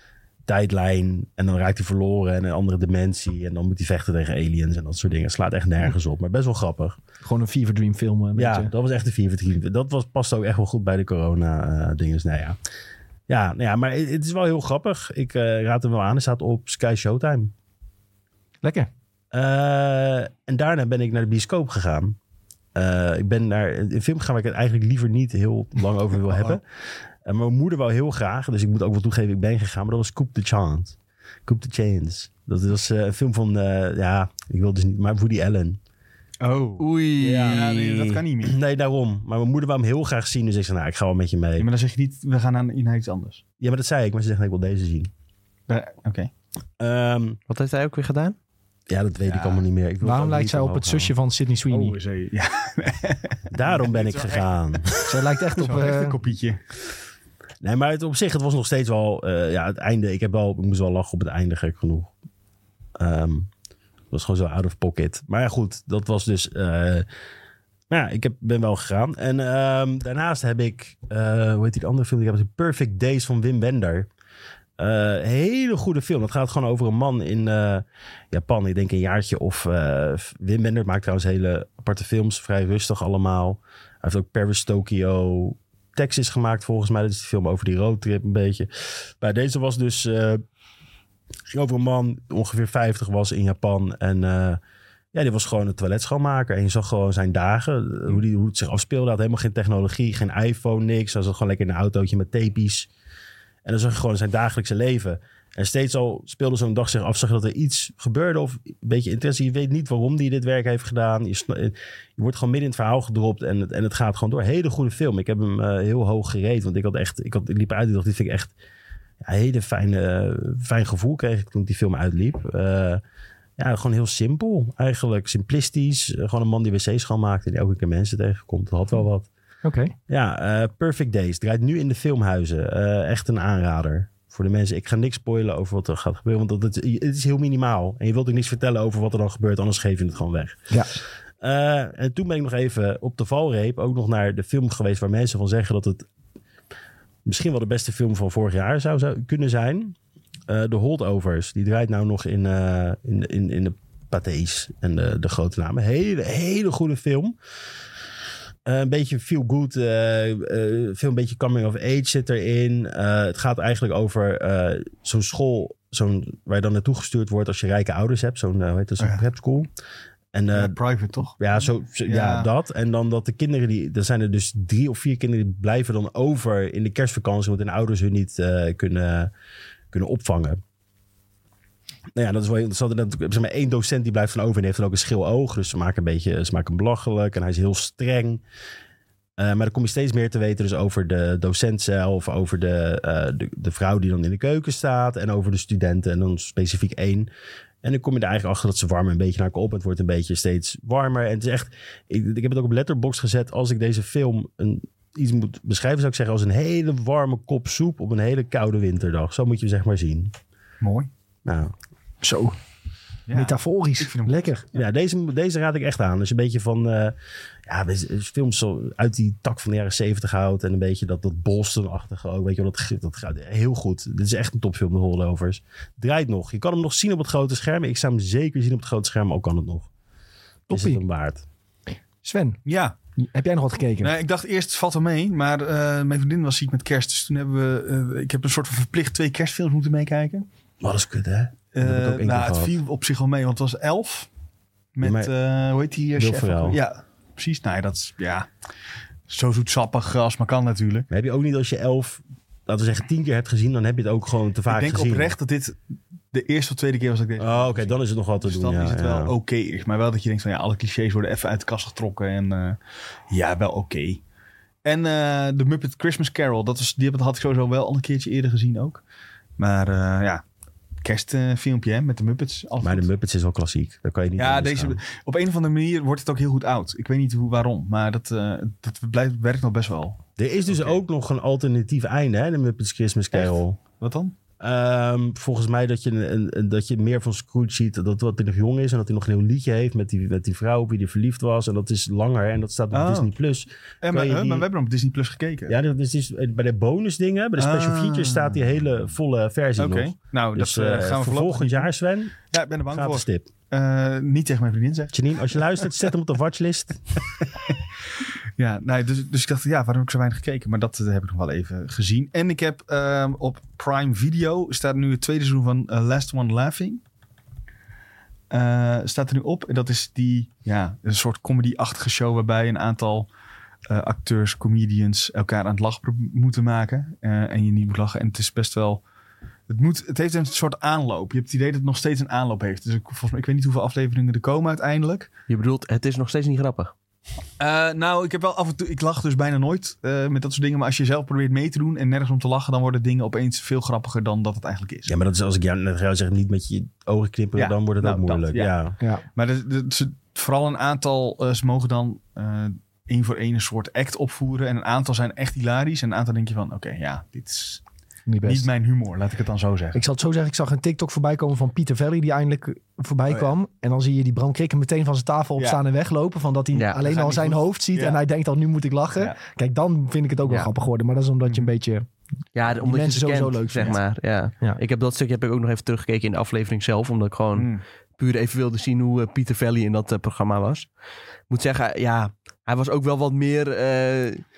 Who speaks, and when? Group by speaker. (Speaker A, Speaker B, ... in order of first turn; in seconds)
Speaker A: 0.5-7.0, 8.4-12.6, 13.3-17.5, 19.3-22.2, 22.8-26.6, 27.2-35.8, 37.2-41.7, 43.6-45.1, 46.8-47.4, 48.9-51.1, 53.5-55.1, 57.6-62.1, 63.0-63.5, 64.1-67.1, 67.9-74.1, 74.8-90.4, 91.5-94.6, 95.1-102.9, 103.6-118.5, 119.2-123.0, 123.6-129.3, 130.1-140.6, 141.4-146.1, 147.2-150.0, 150.5-157.4, 158.7-169.7, 170.3-170.8, 171.4-179.3, 179.9-180.6, 182.1-188.4, 189.4-197.3, 197.8-210.3, 211.5-211.7, 214.7-217.1, 217.7-229.9, 230.7-231.4, 240.8-242.8, 245.0-245.3, 246.2-246.8, 251.1-255.4, 257.4-259.3, 272.8-275.0, 280.4-283.8, 284.6-294.7, 295.7-302.4, 302.9-303.5, 305.1-307.2, 345.1-349.0
Speaker B: 7.2-8.7, 18.6-18.9, 50.0-52.0, 55.1-56.2, 129.6-129.9, 140.7-140.9, 212.2-212.6, 213.3-214.6, 230.7-231.0, 232.2-232.6, 233.2-234.1, 358.3-358.7, 359.9-372.1, 372.7-374.0
Speaker C: 36.4-38.6, 41.6-43.4, 45.7-46.3, 49.3-49.6, 51.7-55.0, 55.6-56.6, 170.6-171.4, 172.1-172.5, 210.8-211.1, 213.3-214.8, 232.7-233.0, 234.0-240.5, 241.8-244.3, 244.9-248.5, 249.3-251.1, 254.7-262.8, 263.3-264.2, 264.8-269.0, 269.6-270.4, 271.0-273.1, 274.4-281.0, 283.3-284.4, 292.9-293.3, 294.0-295.8, 297.6-298.6, 299.8-301.9, 302.5-305.9, 308.6-317.0, 318.5-323.3, 323.9-329.0, 329.7-335.3, 337.6-345.1, 347.6-348.7, 349.4-357.8, 358.4-360.0, 367.0-368.2, 377.6-377.8
Speaker D: 36.8-38.0, 47.5-48.4, 335.5-336.9, 372.6-380.9, 381.5-384.4